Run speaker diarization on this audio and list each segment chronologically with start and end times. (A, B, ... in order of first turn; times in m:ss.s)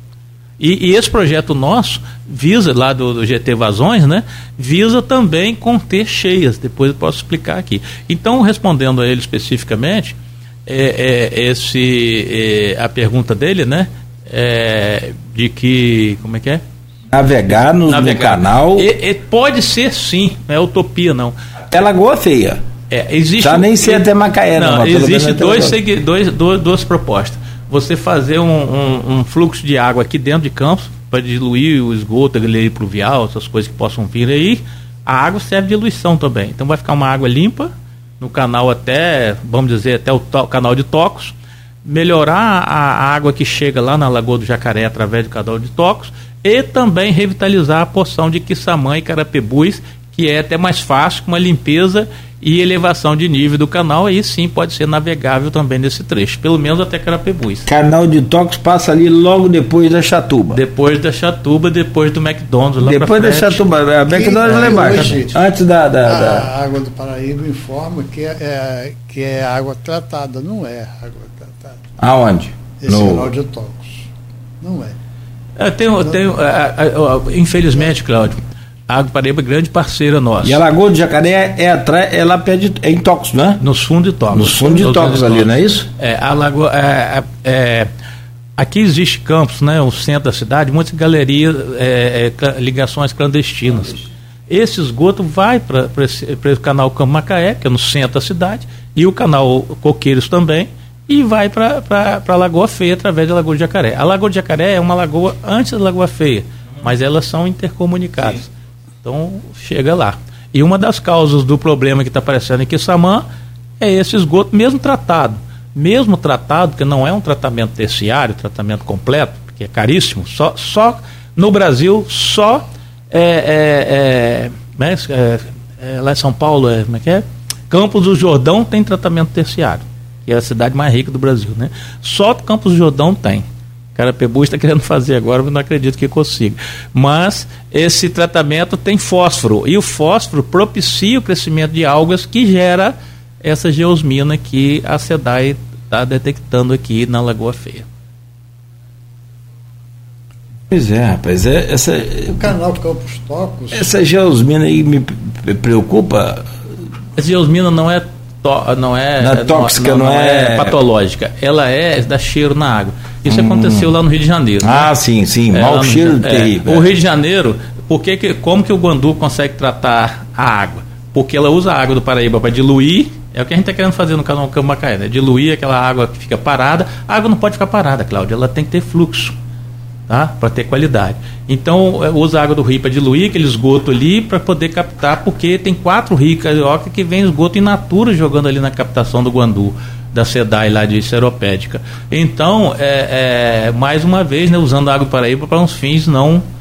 0:00.6-0:10.2 A
0:10.7-0:16.6 A
0:17.1-0:18.9 B
0:17.8-0:21.4 A
0:21.7-0:22.6 B
0:22.9-0:41.3 A
0:23.4-0:25.8 B
0:41.8-0:57.7 A
0:57.7-1:00.6 B
1:00.5-1:03.6 A
1:02.8-1:06.5 B
1:04.1-1:05.3 C
1:04.4-1:05.2 A
1:06.0-1:11.8 C
1:12.0-1:13.3 B
1:12.8-1:14.1 C
1:14.6-1:15.0 C
1:15.6-1:20.6 A
1:20.4-1:23.6 B
1:23.6-1:27.9 A
1:24.3-1:25.9 B
1:28.6-1:48.5 A
1:49.0-1:53.3 A
1:53.8-2:27.9 A
2:30.7-2:32.5 B
2:32.3-2:33.9 C
2:33.7-2:36.4 B
2:37.2-2:44.9 A
2:39.2-2:40.8 B
2:43.3-2:43.9 B
2:44.6-2:46.9 B
2:45.5-2:59.4 A
3:00.1-3:16.4 A